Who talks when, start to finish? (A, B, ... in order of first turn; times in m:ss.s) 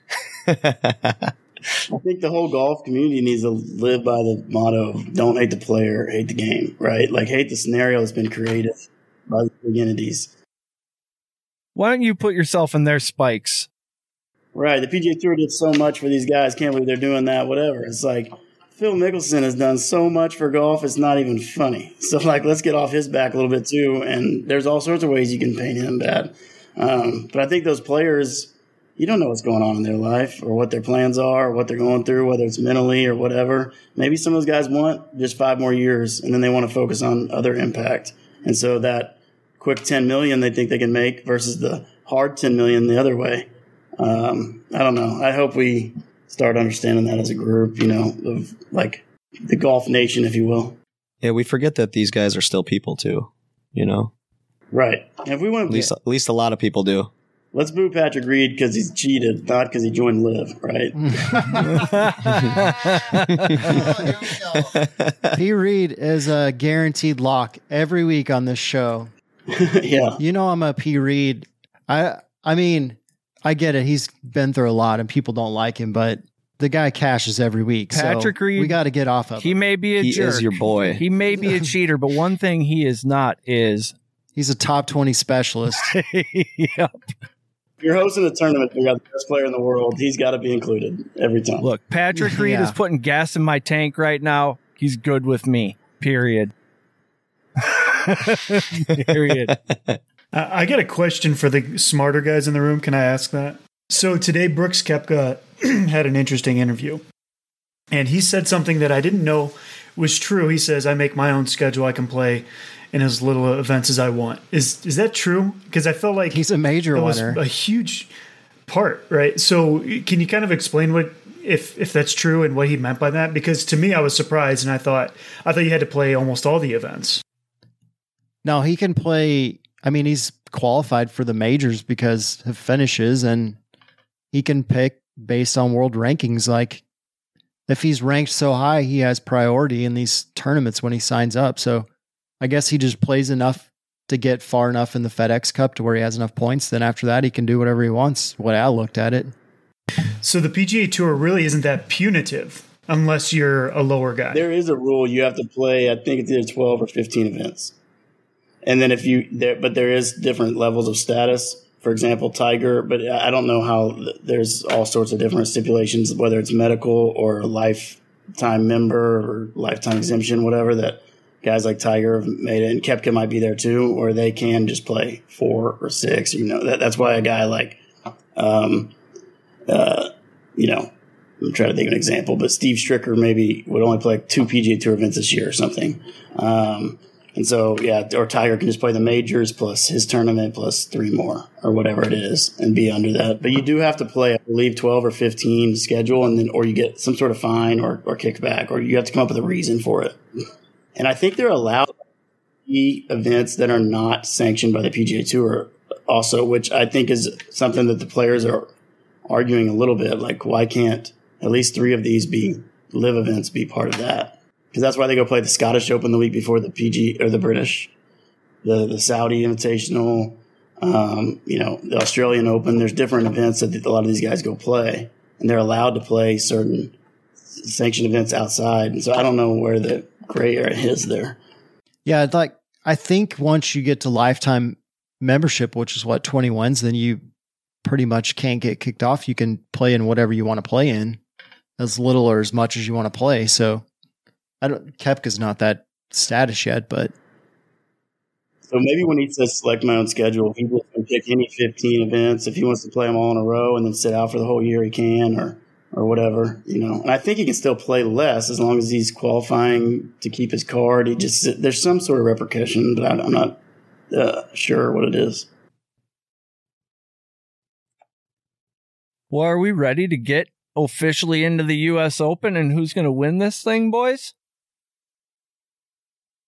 0:00.5-0:01.3 A
0:01.9-0:10.3 B
0:11.7-0:13.7 C
0:14.5-0:43.5 B
0:44.0-0:50.8 B
0:51.2-0:54.1 A
0:54.7-0:55.9 B
0:55.7-0:57.1 A
0:57.5-1:01.8 B
1:01.0-1:01.8 D
1:01.6-1:03.8 C
1:02.2-1:02.5 A
1:03.5-1:03.9 A
1:03.6-1:04.7 D
1:04.6-1:05.4 A
1:05.3-1:09.1 D
1:09.5-1:10.2 B
1:10.2-1:19.6 D
1:17.9-1:18.8 C
1:19.4-1:23.9 C
1:20.0-1:21.0 A
1:21.4-1:21.6 D
1:24.4-1:25.9 D
1:25.9-1:27.0 C
1:27.8-1:31.6 B
1:31.6-1:36.5 C
1:32.1-1:32.8 D
1:37.6-1:39.5 C
1:39.3-1:40.0 A
1:40.3-1:47.0 E
1:47.9-1:56.4 E
1:56.3-1:57.4 D
1:56.9-1:58.1 E
1:58.7-2:07.2 E
2:08.4-2:13.6 D
2:14.3-2:16.8 D
2:17.7-2:21.9 D
2:22.4-2:29.3 D
2:30.2-2:34.4 E
2:34.3-2:37.7 B
2:38.6-2:57.8 B
2:58.4-2:58.9 B
2:59.7-3:00.9 B
3:01.4-3:20.2 B
3:21.0-3:21.9 B
3:22.7-3:28.7 B
3:29.3-3:37.9 B
3:38.6-3:46.9 B
3:47.6-3:51.4 B
3:52.0-3:57.2 D
3:57.8-4:01.2 D
4:01.8-4:03.8 D
4:04.6-4:07.1 D
4:08.7-4:23.6 B
4:24.1-4:25.4 B
4:29.3-4:34.3 C